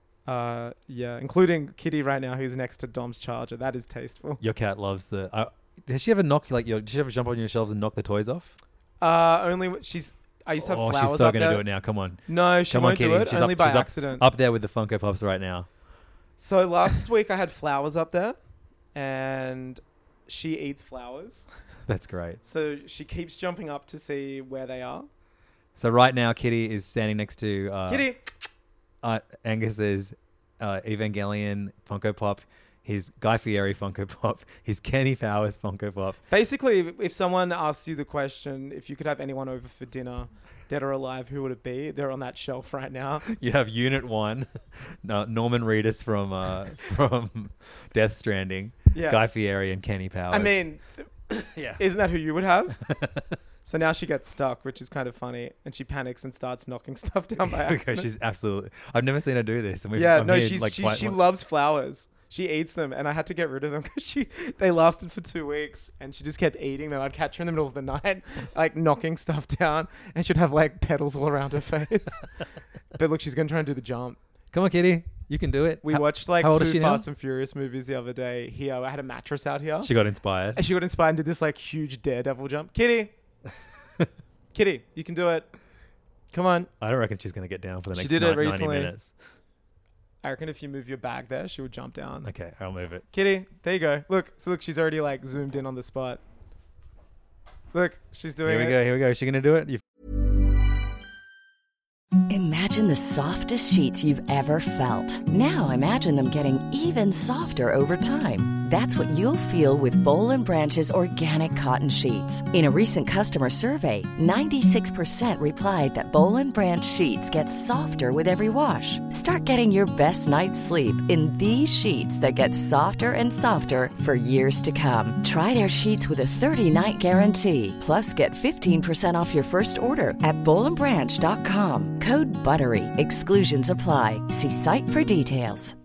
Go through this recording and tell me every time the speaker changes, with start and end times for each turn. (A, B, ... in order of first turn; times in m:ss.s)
0:00.2-0:04.4 A
0:04.4-0:08.6 B
0:09.0-0:11.6 A
0:10.6-0:15.7 B
0:12.3-0:14.2 A
0:16.4-0:18.4 A
0:18.9-0:21.5 A
0:21.9-0:22.4 B
0:22.4-0:25.1 A
0:25.8-0:28.1 B
0:27.9-0:28.2 A
0:29.0-0:36.2 B
0:36.3-0:43.2 A
0:43.2-0:50.6 B
0:48.9-0:49.2 A
0:50.3-0:51.1 A
0:51.3-0:51.8 B
0:51.8-0:52.8 A
0:52.9-0:53.2 B
0:53.6-0:58.1 A
0:57.4-1:01.2 B
0:59.9-1:12.3 A
1:12.9-1:14.2 A
1:14.5-1:17.0 B
1:15.8-1:19.9 A
1:19.8-1:20.6 B
1:20.5-1:23.1 A
1:24.5-1:25.5 A
1:26.3-1:26.7 A
1:26.8-1:29.1 B
1:27.9-1:28.9 A
1:30.2-1:32.3 A
1:32.2-1:33.0 B
1:33.1-1:36.2 A
1:37.7-1:38.8 A
1:38.4-1:39.8 B
1:42.3-2:15.7 C